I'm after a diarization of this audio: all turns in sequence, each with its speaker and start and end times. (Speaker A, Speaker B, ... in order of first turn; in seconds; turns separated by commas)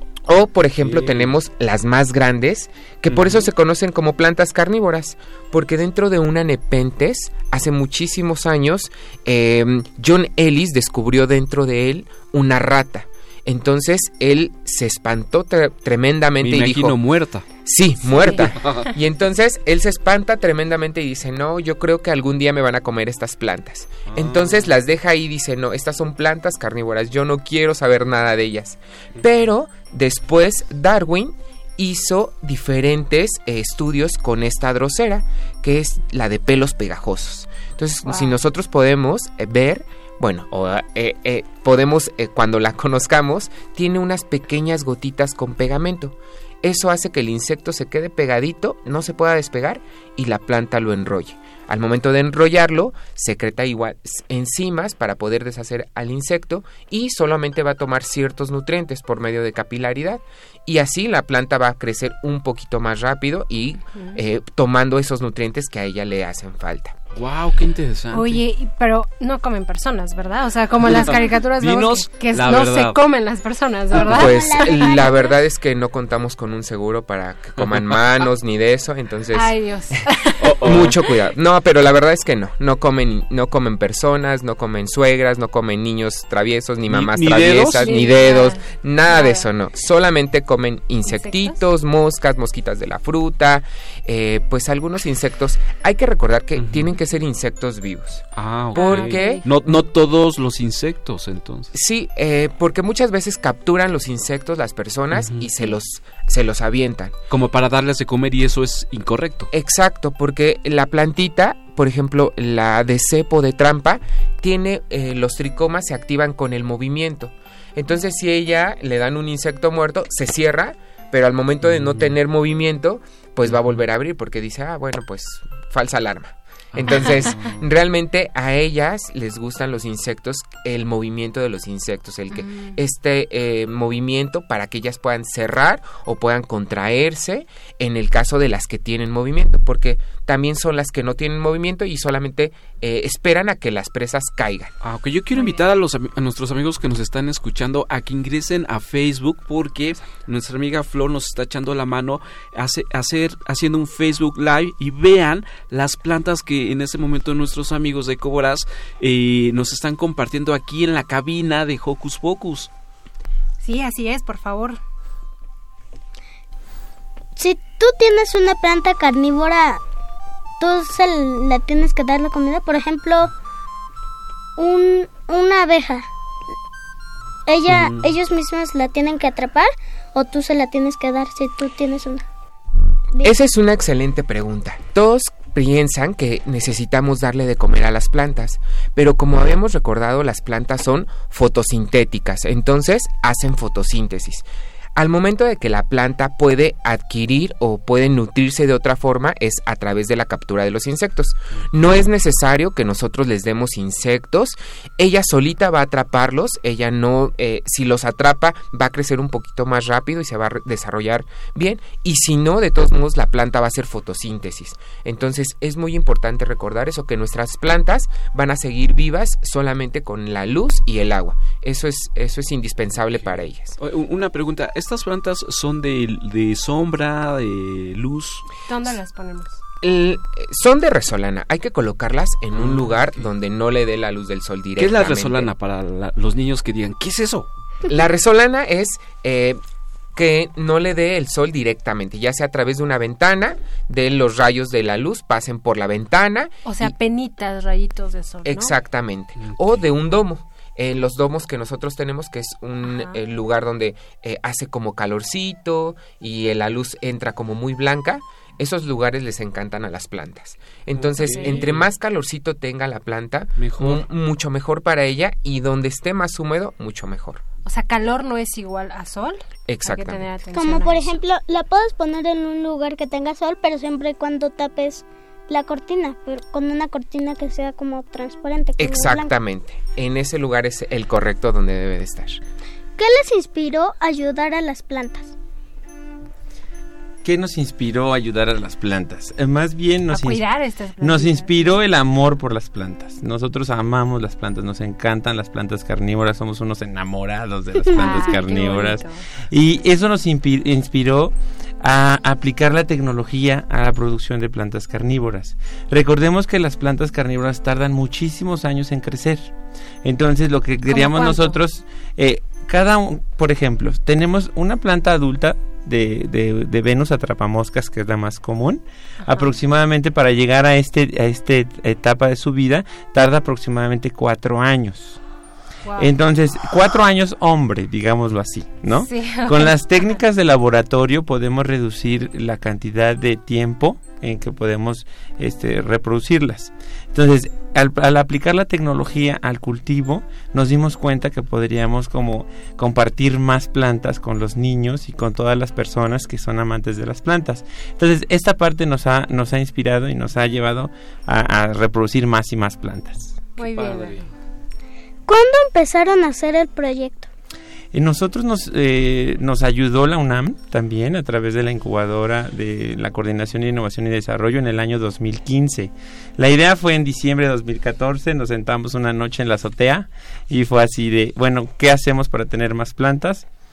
Speaker A: 0.2-17.0, Speaker B: 0.8-1.3, Speaker B: 3.1-3.5, Speaker B: 16.4-17.4, Speaker A: 17.6-66.9, Speaker B: 18.3-18.9, Speaker B: 24.1-24.7, Speaker C: 38.0-38.3, Speaker B: 67.1-68.4, Speaker C: 68.1-75.0, Speaker B: 70.8-73.0, Speaker A: 73.9-79.5, Speaker D: 73.9-75.4, Speaker B: 77.6-78.0, Speaker C: 79.3-80.6, Speaker B: 80.4-81.0, Speaker A: 80.5-99.4, Speaker B: 86.9-88.0, Speaker C: 87.8-89.5, Speaker C: 91.0-91.6, Speaker B: 96.6-96.9, Speaker B: 98.3-101.7, Speaker C: 98.7-99.5, Speaker A: 101.7-107.1, Speaker B: 105.1-105.5, Speaker B: 107.3-109.5, Speaker A: 109.5-144.7, Speaker B: 121.6-122.1, Speaker B: 126.7-127.6, Speaker C: 132.3-132.7, Speaker B: 144.8-162.7, Speaker C: 145.3-145.7, Speaker C: 163.6-164.8, Speaker D: 167.3-169.8, Speaker D: 170.6-173.3, Speaker D: 174.6-176.1, Speaker D: 177.4-182.2, Speaker B: 177.7-178.1, Speaker A: 183.2-194.4, Speaker A: 194.9-223.8, Speaker B: 223.1-228.4, Speaker C: 228.7-229.6, Speaker A: 229.8-235.5, Speaker B: 232.5-233.2, Speaker B: 234.8-237.5, Speaker A: 237.9-239.6, Speaker A: 240.1-246.9, Speaker C: 246.6-248.8, Speaker A: 248.4-267.4, Speaker C: 252.8-253.2, Speaker B: 260.9-261.9, Speaker C: 261.2-261.8, Speaker B: 263.6-264.0, Speaker C: 267.6-271.1, Speaker A: 269.7-270.3, Speaker D: 270.5-279.3, Speaker A: 278.8-282.4, Speaker D: 283.0-285.3, Speaker E: 287.2-290.4, Speaker C: 290.1-291.8, Speaker E: 291.0-325.2, Speaker C: 297.9-299.2, Speaker C: 310.9-311.6, Speaker C: 319.2-319.5, Speaker C: 325.8-326.1, Speaker E: 326.0-353.5, Speaker C: 328.9-329.8, Speaker C: 353.6-354.2, Speaker B: 353.6-354.2, Speaker D: 355.3-357.3, Speaker E: 357.9-373.4